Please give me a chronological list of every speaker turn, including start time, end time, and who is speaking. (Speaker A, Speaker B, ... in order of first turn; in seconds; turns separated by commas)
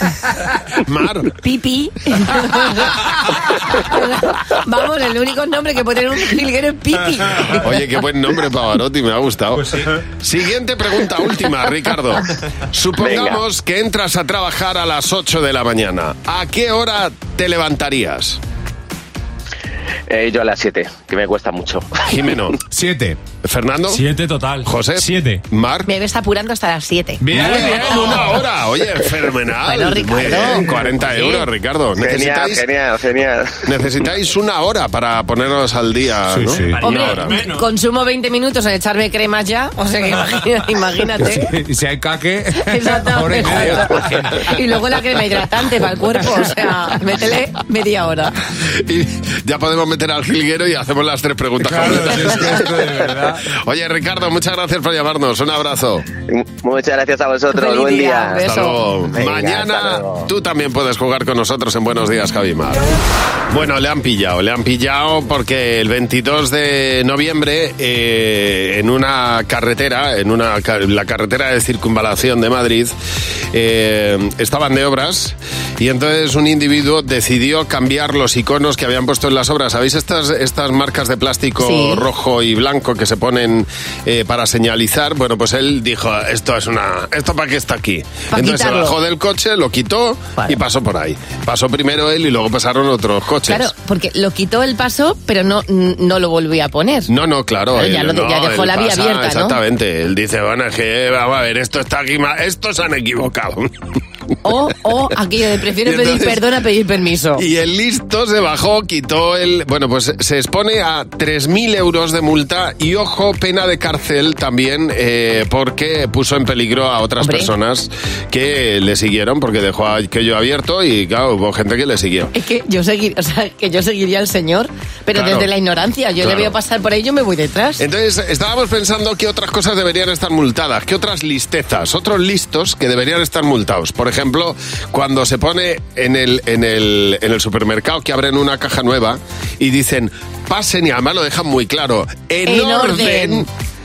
Speaker A: 0.8-1.3, Speaker B: 1.4-7.8, Speaker A: 7.6-18.4, Speaker C: 13.0-13.4, Speaker C: 20.1-21.9, Speaker A: 22.0-22.6, Speaker D: 22.7-23.2, Speaker A: 23.4-24.0, Speaker E: 23.9-25.4, Speaker A: 24.6-25.9, Speaker B: 25.9-27.2, Speaker D: 27.2-28.1, Speaker A: 27.3-32.7, Speaker E: 27.4-28.2, Speaker B: 27.8-28.1, Speaker B: 29.7-31.5, Speaker C: 32.0-33.6, Speaker A: 33.6-37.4, Speaker D: 36.3-36.8, Speaker E: 36.5-37.5, Speaker B: 36.8-41.5, Speaker D: 41.2-44.5, Speaker B: 42.6-48.4, Speaker A: 48.8-52.7, Speaker D: 51.6-53.4, Speaker A: 53.5-56.1, Speaker C: 56.3-58.4, Speaker B: 57.5-58.8, Speaker A: 58.4-62.9, Speaker C: 59.1-60.3, Speaker A: 63.5-72.9, Speaker A: 73.5-93.7, Speaker B: 81.6-82.0, Speaker B: 88.3-89.0, Speaker B: 93.5-97.1, Speaker A: 97.1-103.8, Speaker B: 97.8-99.6, Speaker B: 104.4-107.4, Speaker A: 105.8-106.4, Speaker A: 107.4-122.3, Speaker B: 117.2-117.5, Speaker B: 122.3-127.8, Speaker A: 125.1-125.5, Speaker A: 126.2-126.5, Speaker A: 127.8-143.5, Speaker B: 142.5-143.5